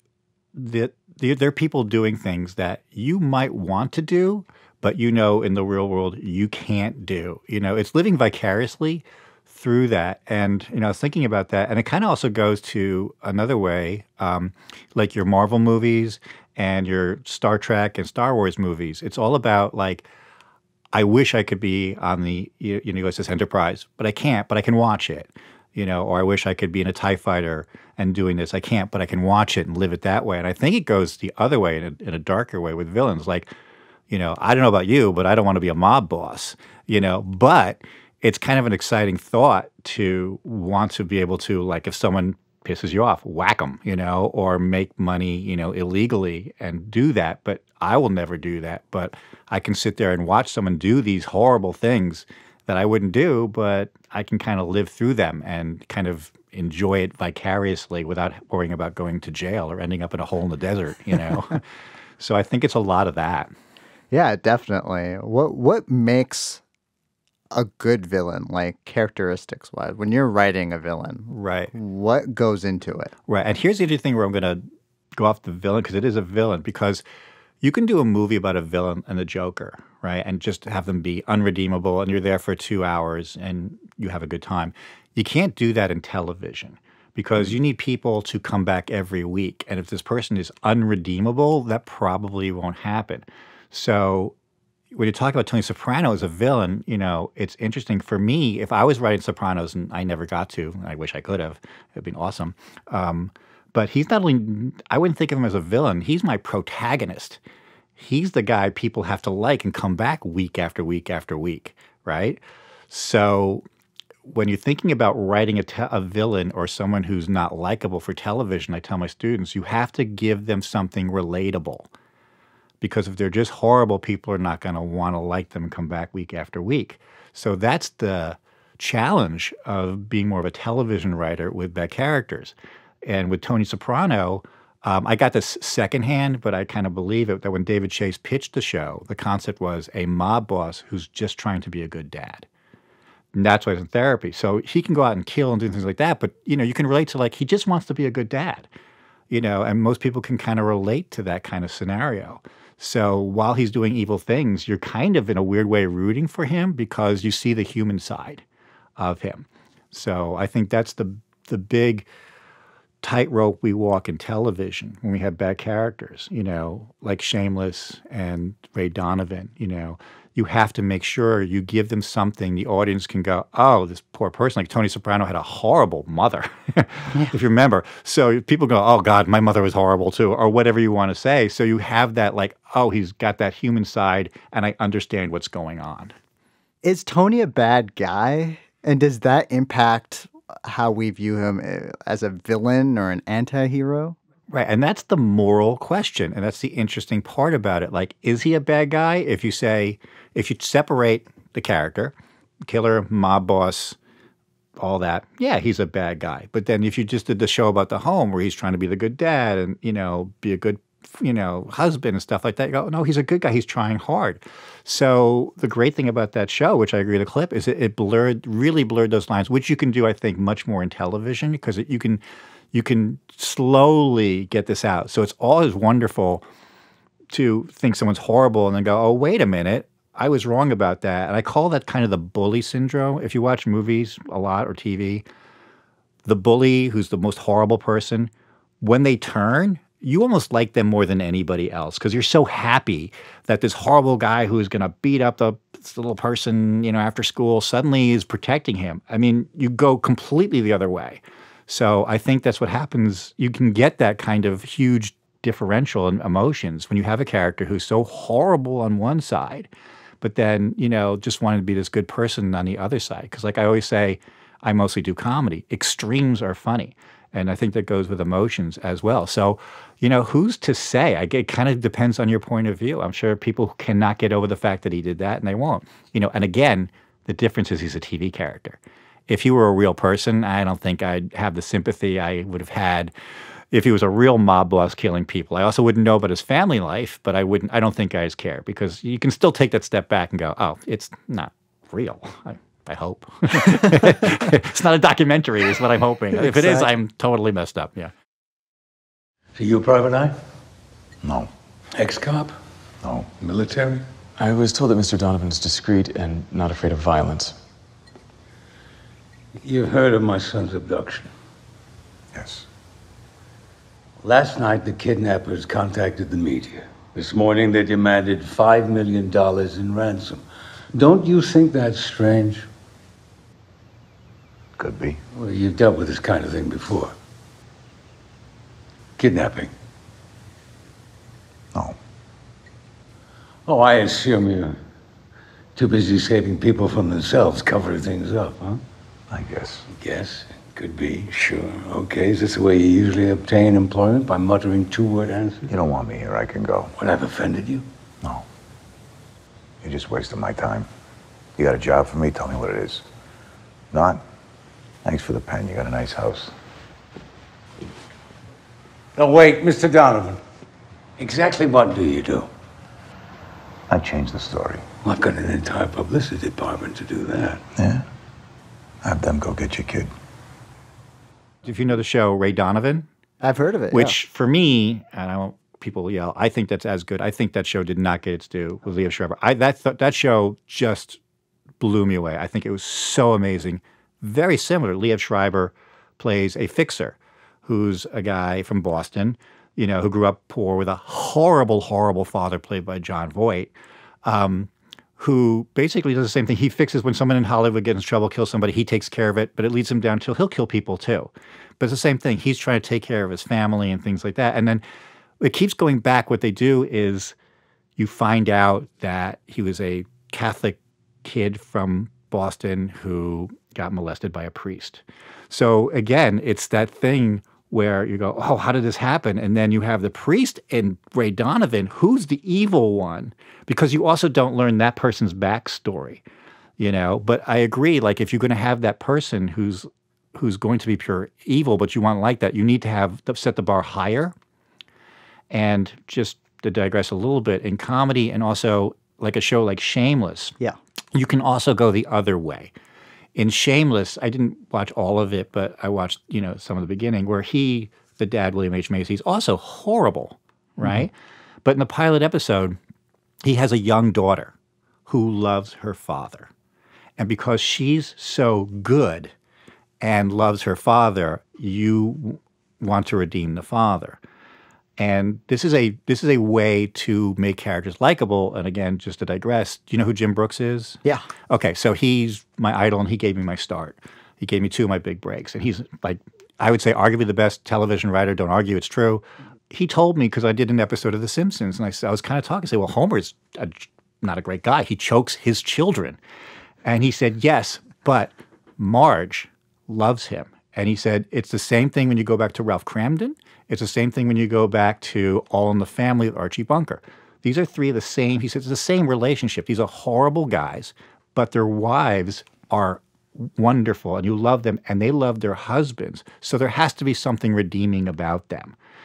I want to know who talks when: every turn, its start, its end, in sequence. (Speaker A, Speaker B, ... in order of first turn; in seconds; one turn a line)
Speaker A: 0.5-20.1
Speaker A: 20.9-33.5
Speaker A: 34.1-61.6
Speaker A: 62.2-63.5
Speaker B: 64.1-66.6
Speaker B: 67.5-73.1
Speaker A: 71.3-71.7
Speaker A: 73.3-77.0
Speaker A: 77.6-94.3
Speaker A: 94.9-107.4
Speaker A: 108.0-113.6
Speaker A: 114.3-121.9
Speaker A: 122.8-142.5
Speaker A: 143.3-148.7
Speaker A: 149.3-158.4
Speaker A: 159.0-162.1
Speaker A: 163.0-186.1
Speaker B: 186.8-194.2
Speaker A: 194.5-202.1
Speaker A: 202.7-204.0
Speaker A: 204.8-222.2
Speaker A: 222.7-226.4
Speaker A: 227.3-235.2
Speaker A: 236.2-259.7
Speaker A: 260.2-283.1
Speaker A: 283.7-298.1
Speaker B: 296.4-296.8
Speaker C: 299.6-300.4
Speaker D: 301.2-301.5
Speaker C: 302.0-302.6
Speaker C: 303.4-304.0
Speaker E: 304.4-307.6
Speaker C: 309.6-311.3
Speaker D: 312.3-312.7
Speaker C: 314.2-322.7
Speaker D: 324.8-325.2
Speaker C: 325.3-327.1
Speaker C: 329.2-329.7
Speaker C: 333.7-334.8
Speaker C: 335.8-338.8
Speaker D: 339.3-339.9
Speaker C: 339.9-345.7
Speaker D: 345.7-346.9
Speaker C: 347.0-347.9
Speaker D: 349.8-350.9
Speaker D: 351.6-353.1
Speaker D: 353.9-354.2
Speaker D: 355.0-356.5
Speaker C: 359.2-360.4
Speaker C: 361.2-362.5
Speaker D: 363.9-364.8
Speaker C: 365.0-367.6
Speaker D: 367.8-368.0
Speaker D: 369.0-370.1
Speaker A: 371.6-373.1
Speaker B: 373.4-374.1
Speaker A: 373.9-381.2
Speaker A: 381.8-393.7
Speaker A: 394.2-404.8
Speaker A: 405.4-407.4
Speaker A: 408.0-426.2
Speaker A: 426.8-434.3
Speaker A: 435.5-440.6
Speaker A: 441.1-442.7
Speaker A: 443.4-451.1
Speaker B: 450.8-451.1
Speaker A: 451.6-452.8
Speaker A: 453.4-454.5
Speaker A: 455.1-456.5
Speaker A: 457.2-459.3
Speaker A: 460.0-464.2
Speaker A: 465.0-486.2
Speaker A: 486.8-508.8